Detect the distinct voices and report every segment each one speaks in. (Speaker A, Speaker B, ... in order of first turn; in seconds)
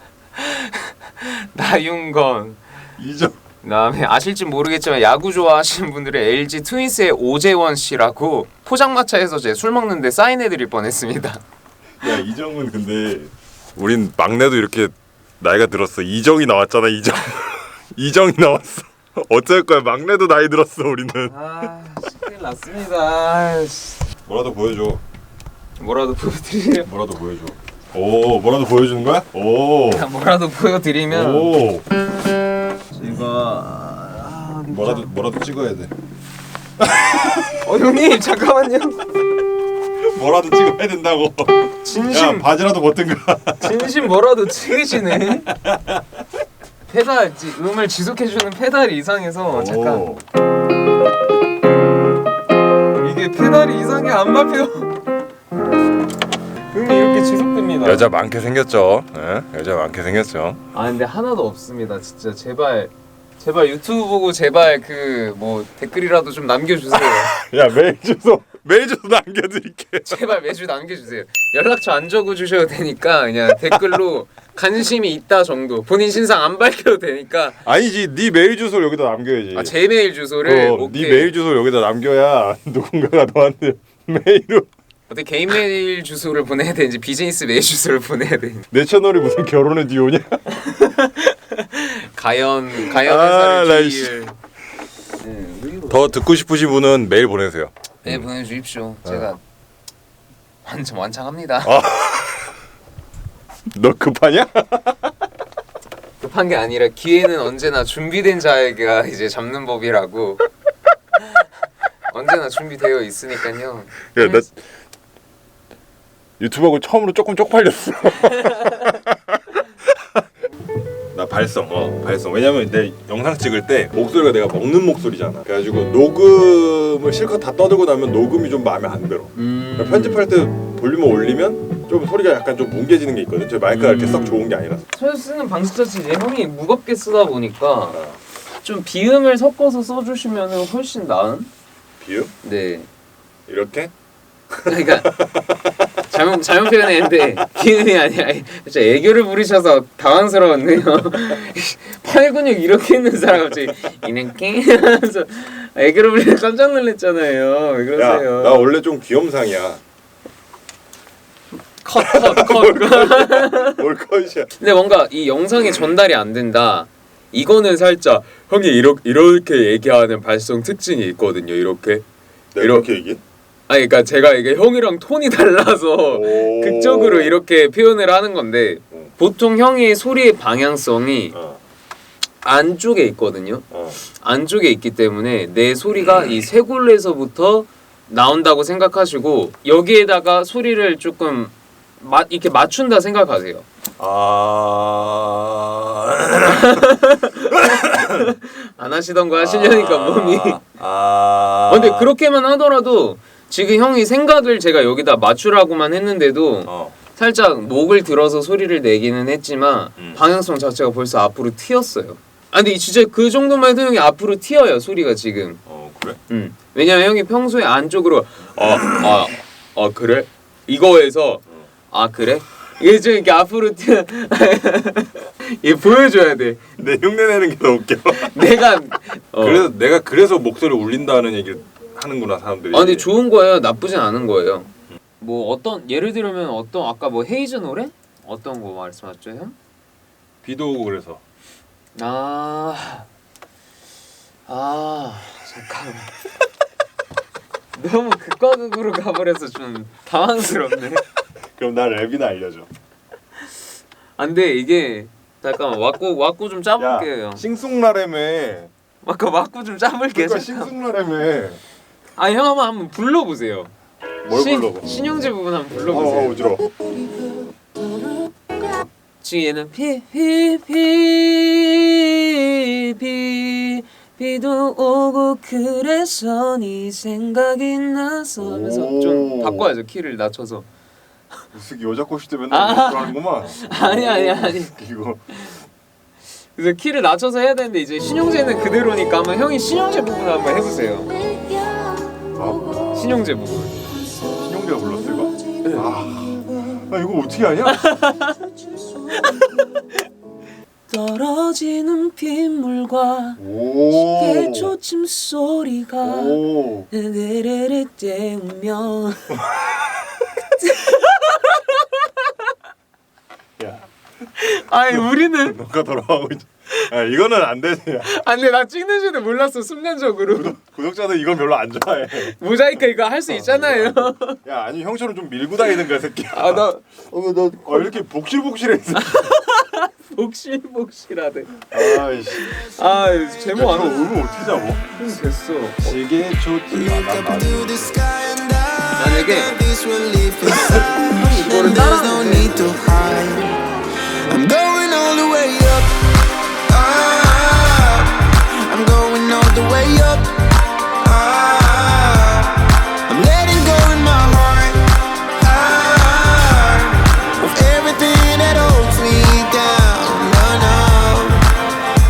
Speaker A: 0.3-2.6, 3.6-11.4, 21.3-24.1, 25.8-26.9, 29.9-31.5, 32.9-35.1, 37.6-39.1, 41.8-42.5, 43.6-45.5, 46.9-50.1, 53.0-55.0, 56.7-58.1, 60.7-67.3, 70.0-77.6, 79.5-81.3, 85.1-88.6, 90.6-94.3, 95.2-96.1, 98.0-99.4, 100.7-101.8, 106.2-110.5, 112.1-114.5, 129.3-130.3, 133.7-138.0, 138.6-141.5, 142.4-142.9, 144.7-145.2, 146.0-158.7, 161.8-163.8, 164.6-172.1, 172.6-172.9, 173.7-181.4, 182.4-193.7, 196.4-200.6, 201.7-215.6, 216.3-226.6, 228.1-229.7, 232.7-239.6, 241.9-243.1, 244.5-246.1, 247.8-251.0, 254.2-257.4, 259.0-260.7, 262.2-263.7, 264.3-266.4, 269.2-280.7, 282.5-284.8, 286.6-292.0, 292.9-294.0, 295.6-295.9, 297.8-298.4, 299.1-300.0, 300.9-309.4, 310.4-312.3, 314.4-315.6, 318.0-320.6, 322.2-324.4, 326.3-326.9, 328.9-334.2, 334.9-336.0, 339.0-339.5, 341.0-343.0
Speaker B: 3.0-3.4, 12.0-21.3, 24.3-25.0, 26.9-30.1, 31.1-31.9, 34.7-35.9, 36.8-37.4, 40.0-43.9, 45.3-46.0, 49.5-50.2, 57.8-60.6, 67.0-70.2, 73.5-74.0, 77.6-79.7, 80.5-84.7, 88.7-90.5, 92.7-94.2, 95.9-98.3, 101.6-102.5, 103.7-105.1, 114.1-114.5, 116.4-120.2, 121.1-134.8, 137.9-138.2, 142.0-142.3, 143.5-143.9, 144.5-145.6, 158.0-159.8, 162.0-164.5, 172.5-173.2, 176.1-177.4, 181.3-181.6, 183.7-184.0, 194.0-196.9, 197.4-198.3, 199.3-202.1, 206.7-207.0, 215.7-216.2, 226.8-228.3, 229.4-233.1, 240.4-241.2, 251.6-252.7, 256.8-258.7, 260.1-261.6, 264.2-264.9, 265.8-266.7, 278.4-279.7, 281.5-285.2, 292.4-292.9, 294.3-298.1, 303.4-304.8, 306.0-306.9, 313.6-313.9, 314.9-318.1, 320.3-322.4, 323.3-329.3, 331.7-332.5, 333.5-334.9, 335.8-338.2, 340.5-340.9
Speaker C: 336.7-343.7, 344.2-361.5